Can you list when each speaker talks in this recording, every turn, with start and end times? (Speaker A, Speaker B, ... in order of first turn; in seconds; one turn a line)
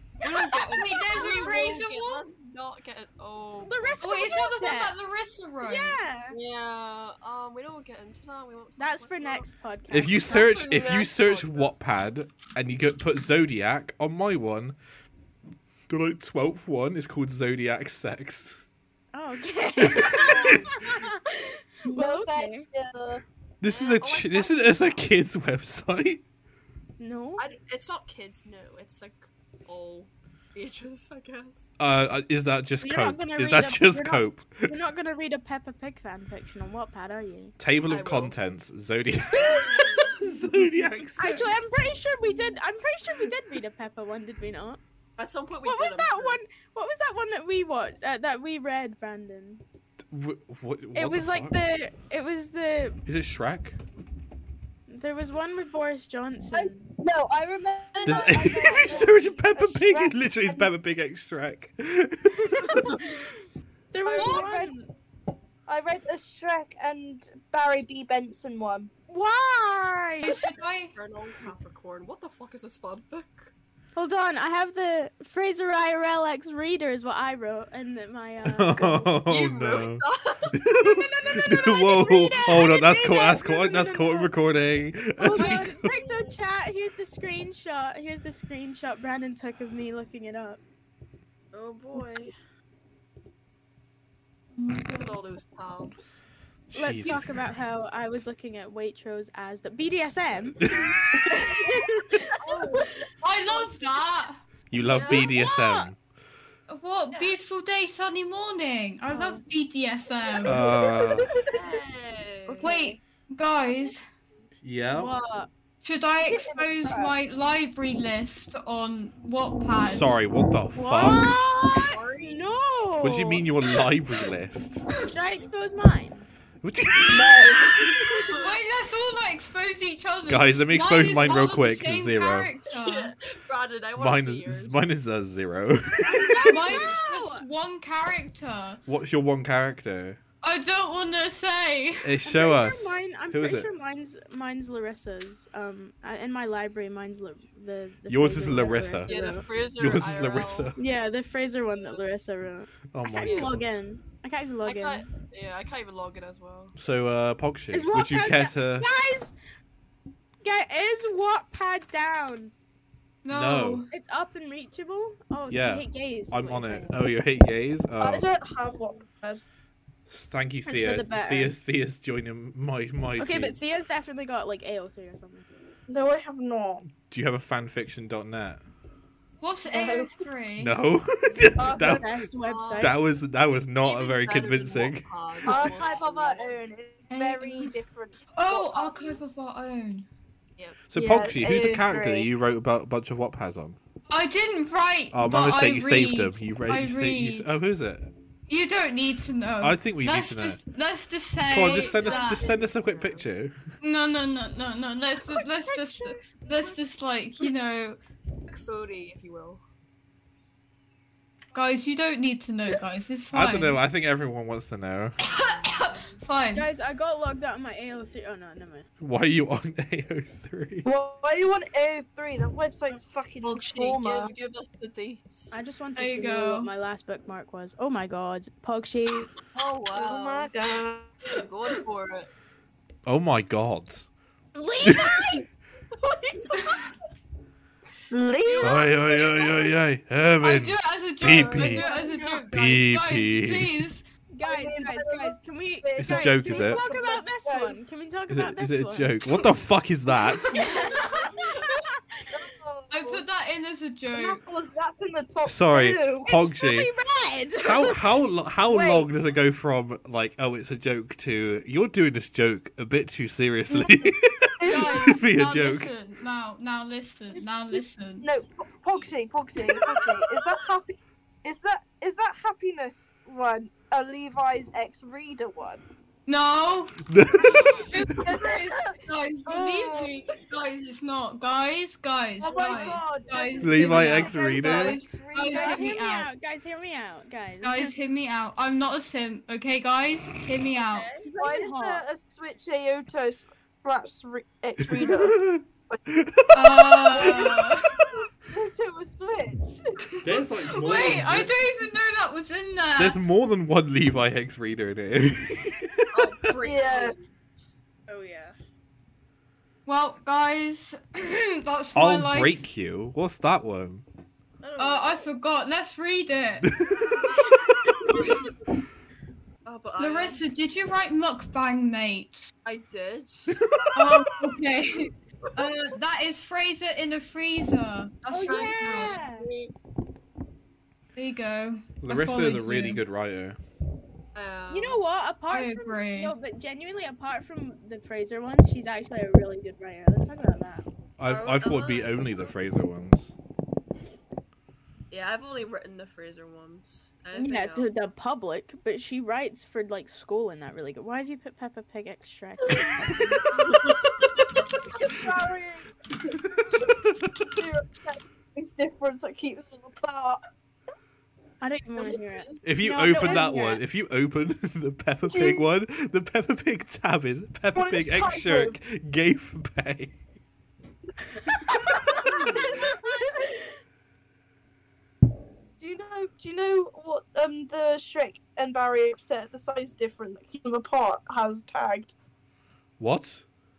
Speaker A: 0.2-4.0
Speaker B: 0.5-2.3
Speaker C: 1.1-1.7
Speaker C: 3.6-4.9
Speaker B: 4.0-6.0
Speaker C: 5.6-6.4
Speaker A: 6.3-9.5
Speaker C: 8.8-10.3
Speaker D: 9.9-14.8
Speaker A: 10.2-11.8
Speaker D: 15.9-18.7
Speaker C: 19.1-22.7
Speaker D: 19.8-20.7
Speaker A: 20.1-20.9
Speaker E: 21.9-23.2
Speaker D: 23.6-26.2
Speaker A: 23.6-25.1
Speaker C: 27.0-27.4
Speaker A: 27.4-31.7
Speaker D: 31.8-34.7
Speaker C: 32.8-37.5
Speaker D: 37.6-41.7
Speaker A: 37.9-38.4
Speaker A: 39.3-40.2
Speaker C: 41.2-44.8
Speaker A: 45.2-46.4
Speaker C: 45.6-49.6
Speaker D: 50.1-51.6
Speaker C: 50.9-53.0
Speaker D: 53.1-53.8
Speaker C: 54.9-56.9
Speaker E: 56.5-60.7
Speaker D: 58.0-62.9
Speaker C: 62.3-63.3
Speaker C: 63.9-64.8
Speaker E: 64.1-64.7
Speaker B: 64.1-64.7
Speaker E: 65.7-68.9
Speaker C: 69.1-70.4
Speaker B: 70.2-70.9
Speaker A: 70.9-73.5
Speaker C: 74.0-79.2
Speaker D: 78.5-85.9
Speaker A: 79.3-80.6
Speaker C: 80.8-84.4
Speaker C: 85.2-90.6
Speaker B: 85.3-85.8
Speaker A: 85.9-86.3
Speaker A: 91.5-92.3
Speaker B: 94.6-95.2
Speaker A: 94.9-96.2
Speaker D: 96.7-97.4
Speaker C: 96.7-100.6
Speaker D: 100.6-100.9
Speaker E: 101.2-101.8
Speaker C: 101.3-103.0
Speaker A: 102.4-103.0
Speaker B: 103.2-104.4
Speaker D: 104.7-106.0
Speaker A: 104.9-105.3
Speaker C: 105.0-105.9
Speaker B: 106.7-110.7
Speaker A: 107.1-107.4
Speaker C: 109.1-109.4
Speaker D: 110.4-111.3
Speaker E: 110.7-111.5
Speaker A: 111.4-112.8
Speaker C: 112.5-113.0
Speaker B: 112.6-114.0
Speaker D: 114.6-115.1
Speaker C: 114.9-115.5
Speaker B: 115.8-120.1
Speaker E: 116.2-117.2
Speaker D: 119.8-121.3
Speaker C: 120.8-123.5
Speaker A: 121.7-122.6
Speaker D: 123.0-124.9
Speaker C: 125.0-126.3
Speaker D: 126.6-127.5
Speaker E: 127.1-128.0
Speaker B: 128.3-133.2
Speaker D: 130.3-132.5
Speaker A: 132.7-134.8
Speaker D: 134.0-136.3
Speaker C: 136.1-137.5
Speaker B: 136.4-138.8
Speaker D: 138.9-140.2
Speaker B: 140.4-142.2
Speaker D: 142.0-143.7
Speaker C: 142.2-149.4
Speaker D: 148.1-149.2
Speaker A: 149.1-150.8
Speaker D: 149.8-150.8
Speaker C: 150.8-155.1
Speaker D: 152.9-153.8
Speaker A: 153.2-153.6
Speaker A: 154.7-156.8
Speaker D: 156.8-158.9
Speaker C: 157.7-159.3
Speaker C: 160.4-162.5
Speaker B: 163.2-163.9
Speaker D: 163.3-163.9
Speaker C: 163.9-167.0
Speaker D: 165.5-168.3
Speaker E: 168.0-169.4
Speaker D: 170.1-173.6
Speaker C: 170.7-171.6
Speaker C: 173.2-175.5
Speaker E: 175.9-176.9
Speaker D: 177.0-178.6
Speaker B: 179.4-180.8
Speaker E: 179.7-180.2
Speaker D: 180.6-182.1
Speaker E: 181.6-182.1
Speaker C: 181.6-182.9
Speaker A: 182.4-182.9
Speaker D: 182.8-185.1
Speaker A: 183.8-186.6
Speaker E: 185.5-189.3
Speaker B: 187.1-187.7
Speaker B: 188.3-190.1
Speaker D: 190.9-193.8
Speaker E: 190.9-192.3
Speaker B: 194.1-197.5
Speaker D: 195.1-198.1
Speaker B: 198.5-202.5
Speaker D: 199.6-200.6
Speaker D: 201.5-203.6
Speaker A: 201.6-203.3
Speaker B: 203.8-208.0
Speaker A: 208.5-209.6
Speaker B: 211.5-213.8
Speaker D: 213.3-215.2
Speaker B: 215.2-216.7
Speaker A: 215.8-216.2
Speaker C: 216.5-218.9
Speaker D: 219.0-220.9
Speaker E: 220.8-224.3
Speaker A: 223.4-225.5
Speaker C: 225.5-229.3
Speaker B: 226.0-226.7
Speaker A: 229.5-230.5
Speaker E: 229.9-231.2
Speaker A: 231.2-232.3
Speaker D: 233.1-234.1
Speaker C: 234.6-235.4
Speaker D: 234.8-235.2
Speaker A: 236.0-236.9
Speaker E: 238.1-238.9
Speaker A: 238.4-239.7
Speaker D: 238.6-241.9
Speaker B: 240.4-244.1
Speaker A: 241.2-242.5
Speaker E: 241.9-242.4
Speaker D: 242.5-243.8
Speaker C: 244.3-249.4
Speaker E: 244.4-247.8
Speaker D: 246.0-246.8
Speaker D: 248.3-250.6
Speaker C: 250.5-252.4
Speaker E: 250.7-251.1
Speaker A: 250.8-251.3
Speaker E: 252.3-253.2
Speaker B: 252.9-254.4
Speaker E: 254.1-256.3
Speaker D: 255.4-256.9
Speaker C: 256.2-258.0
Speaker D: 257.6-265.9
Speaker E: 258.7-259.1
Speaker E: 264.6-265.2
Speaker B: 264.6-268.3
Speaker E: 267.4-275.8
Speaker B: 276.3-286.3
Speaker D: 277.1-278.1
Speaker E: 278.0-280.4
Speaker E: 282.4-285.9
Speaker D: 283.6-285.0
Speaker C: 285.5-287.9
Speaker B: 287.6-291.1
Speaker A: 290.7-291.3
Speaker C: 291.3-292.0
Speaker E: 291.4-296.0
Speaker D: 294.8-297.5
Speaker B: 296.5-297.9
Speaker E: 297.1-297.7
Speaker E: 298.5-300.1
Speaker D: 300.2-301.7
Speaker B: 300.7-303.2
Speaker D: 303.0-306.2
Speaker A: 306.1-307.2
Speaker E: 306.6-307.1
Speaker A: 308.1-308.6
Speaker B: 309.9-312.6
Speaker D: 311.9-314.1
Speaker A: 314.6-315.3
Speaker B: 314.8-316.7
Speaker D: 316.6-317.2
Speaker B: 317.3-318.5
Speaker A: 319.6-320.5
Speaker B: 320.0-322.5
Speaker A: 322.6-323.9
Speaker B: 323.9-329.2
Speaker C: 328.3-329.5
Speaker A: 328.4-329.7
Speaker B: 331.1-333.0
Speaker D: 332.0-333.6
Speaker A: 334.4-335.0
Speaker C: 334.7-340.9
Speaker B: 335.5-336.4
Speaker D: 341.2-343.4
Speaker A: 341.2-342.5
Speaker A: 345.1-347.9
Speaker C: 347.3-353.4
Speaker A: 353.5-354.4
Speaker E: 354.9-355.9
Speaker D: 356.7-357.5
Speaker E: 357.5-360.4
Speaker C: 361.6-363.8
Speaker A: 362.0-362.6
Speaker D: 362.6-370.2
Speaker E: 365.3-365.6
Speaker E: 367.7-368.8
Speaker C: 371.4-372.9
Speaker E: 371.9-373.0
Speaker E: 375.8-382.1
Speaker D: 383.0-383.4